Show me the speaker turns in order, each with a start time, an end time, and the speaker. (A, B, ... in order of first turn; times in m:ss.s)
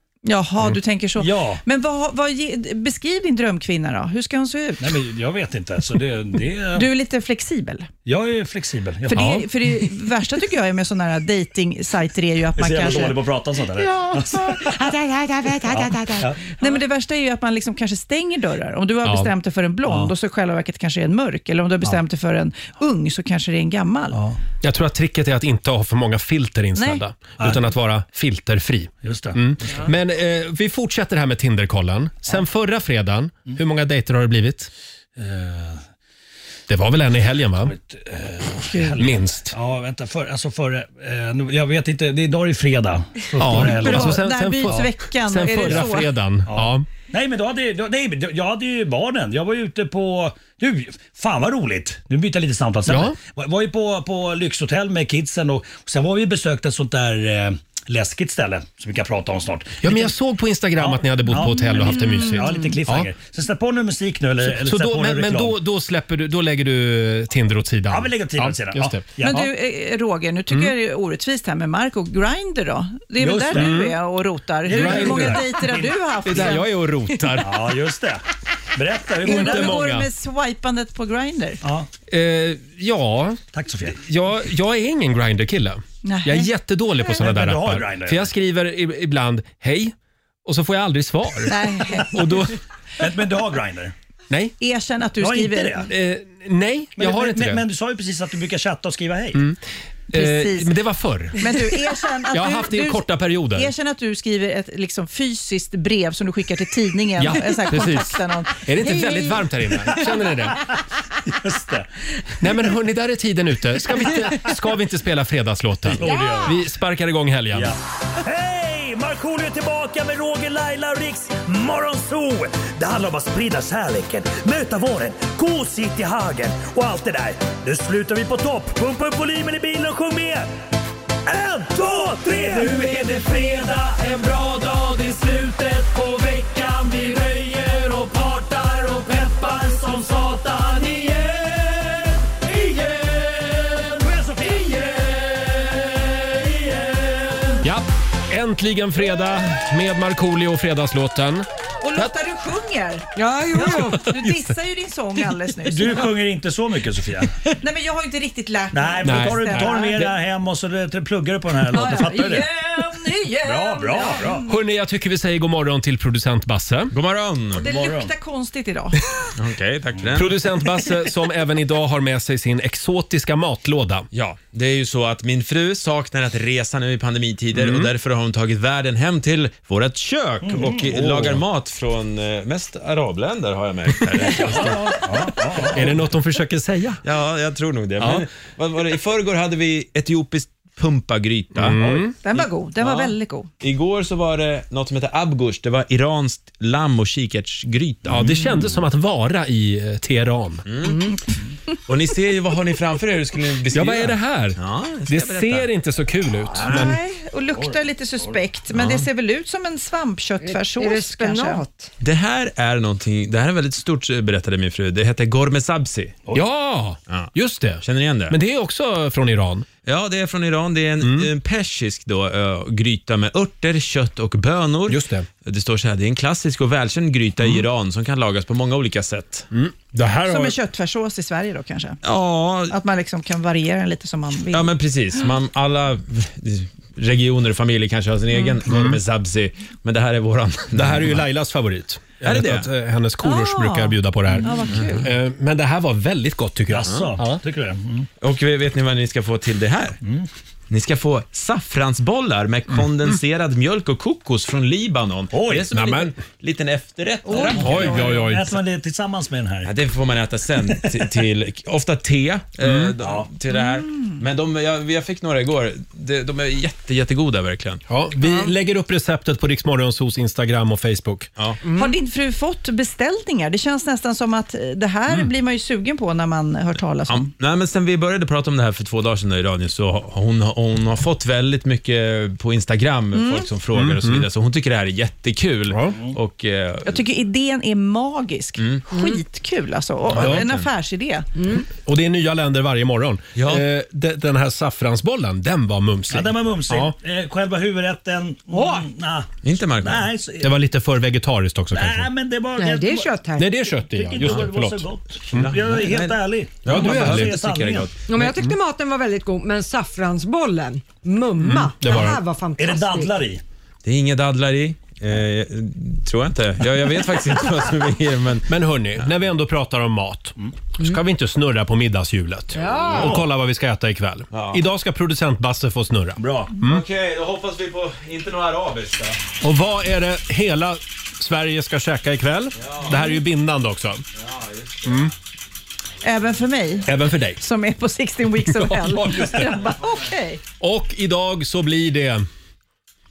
0:00.2-0:05.1 A
0:01.2-0:01.6 B
0:04.8-0:06.9 B
0:06.7-0:07.9 A
0:08.0-0:09.4 B
0:09.1-0:13.3 A
0:09.2-0:09.4 C
0:12.6-0:14.8 B
0:14.0-0:16.3 D
0:15.6-0:16.5 B
0:16.6-0:24.2 A
0:19.0-0:19.3 C
0:19.9-0:20.1 B
0:24.1-0:24.4 B
0:24.6-0:34.7 C
0:26.8-0:27.0 A
0:29.0-0:29.9 B
0:35.2-0:35.8 B
0:36.7-0:37.7 C
0:37.6-0:44.8 B
0:39.0-0:39.6 C
0:43.4-0:46.9 C
0:43.5-0:46.1 A
0:46.5-1:00.1 B
0:52.9-0:53.2 C
0:59.8-1:03.1 C
1:00.8-1:05.6 B
1:01.3-1:02.8 A
1:04.4-1:09.5 C
1:07.9-1:09.5 B
1:09.2-1:16.7 A
1:13.2-1:13.8 B
1:13.5-1:14.0 C
1:14.7-1:16.6 B
1:14.7-1:15.6 C
1:16.2-1:17.7 C
1:17.4-1:18.2 B
1:18.8-1:19.8 B
1:19.2-1:21.6 A
1:19.2-1:20.1 C
1:21.6-1:21.9 B
1:22.1-1:23.4 C
1:23.5-1:24.0 B
1:24.0-1:29.9 C
1:26.0-1:26.5 A
1:27.2-1:28.3 B
1:30.4-1:32.6 C
1:31.5-1:32.3 A
1:33.0-1:33.9 B
1:34.6-1:35.9 A
1:35.2-1:35.9 B
1:35.9-1:37.6 C
1:37.0-1:39.4 B
1:40.1-1:41.7 C
1:40.1-1:40.7 A
1:41.4-1:49.5 A
1:42.3-1:43.7 C
1:47.2-1:50.6 C
1:51.2-1:51.9 B
1:52.4-1:57.8 C
1:55.9-1:56.6 B
1:57.5-2:10.5 B
2:11.3-2:14.1 B
2:14.1-2:19.1 C
2:16.5-2:16.8 B
2:18.5-2:21.3 B
2:22.5-2:23.9 C
2:24.0-2:25.2 B
2:26.6-2:27.5 B
2:27.6-2:32.1 C
2:31.8-2:36.2 A
2:33.2-2:34.0 D
2:33.6-2:34.5 C
2:35.6-2:37.4 B
2:37.6-2:40.1 A
2:38.7-2:42.5 B
2:39.0-2:40.1 C
2:41.7-2:44.4 A
2:43.4-2:44.4 B
2:44.5-2:46.9 C
2:46.9-2:47.6 E
2:47.6-2:49.1 A
2:47.6-2:48.1 B
2:49.4-2:50.3 E
2:50.2-2:54.1 C
2:54.1-3:05.3 E
2:57.6-2:57.9 C
3:00.4-3:01.3 B
3:04.4-3:06.0 B
3:05.7-3:07.0 C
3:07.0-3:11.8 E
3:08.0-3:08.3 C
3:11.6-3:12.1 C
3:11.8-3:12.0 B
3:12.2-3:13.5 A
3:12.3-3:18.3 E
3:18.1-3:20.6 C
3:18.2-3:18.5 B
3:20.7-3:21.0 E
3:21.9-3:25.7 E
3:23.7-3:27.0 C
3:26.6-3:27.0 B
3:26.6-3:31.6 A
3:27.5-3:28.4 B
3:28.7-3:29.1 E
3:30.4-3:31.9 D
3:32.0-3:36.2 E
3:36.3-3:39.7 C
3:37.1-3:38.4 E
3:39.8-3:49.5 E
3:41.0-3:41.3 C
3:44.9-3:45.3 C
3:49.5-3:50.0 C
3:50.2-3:52.0 A
3:52.0-3:52.8 E
3:52.7-3:55.2 A
3:54.5-4:01.2 E
3:58.7-3:59.0 C
4:00.7-4:07.4 C
4:02.2-4:02.7 E
4:03.2-4:05.1 A
4:06.7-4:08.1 B
4:08.2-4:10.0 E
4:10.7-4:18.0 E
4:12.8-4:13.1 C
4:15.3-4:15.7 B
4:15.7-4:16.1 C
4:17.3-4:19.7 B
4:17.3-4:17.6 A
4:17.6-4:18.6 C
4:19.6-4:27.8 E
4:22.6-4:22.9 C
4:23.5-4:24.1 A
4:27.9-4:31.3 C
4:31.6-4:31.9 D
4:31.7-4:37.3 A
4:37.1-4:47.0 E
4:43.1-4:43.5 A
4:43.7-4:44.3 C
4:45.7-4:46.0 C
4:46.8-4:51.3 A
4:48.6-4:48.8 E
4:48.9-4:49.2 D
4:50.1-4:50.7 E
4:50.2-4:50.5 C
4:51.7-4:57.0 C
4:53.4-4:53.6 E
4:56.1-5:00.5 B
4:59.4-5:00.1 E
5:00.4-5:02.1 C
5:01.7-5:03.1 B
5:02.6-5:03.5 D
5:03.4-5:05.6 C
5:03.7-5:07.9 B
5:05.3-5:07.9 E
5:06.7-5:07.4 C
5:08.1-5:13.2 D
5:08.2-5:08.5 C
5:11.4-5:12.2 C
5:12.6-5:13.4 B
5:13.8-5:18.5 E
5:18.5-5:26.8 C
5:22.6-5:23.0 D
5:22.9-5:23.3 B
5:24.3-5:24.6 E
5:26.2-5:26.5 B
5:26.6-5:29.2 E
5:29.4-5:34.0 C
5:32.6-5:33.0 E
5:34.2-5:35.1 E
5:34.8-5:35.1 C
5:36.0-5:40.4 A
5:36.8-5:37.4 C
5:38.4-5:39.6 C
5:40.6-5:42.3 C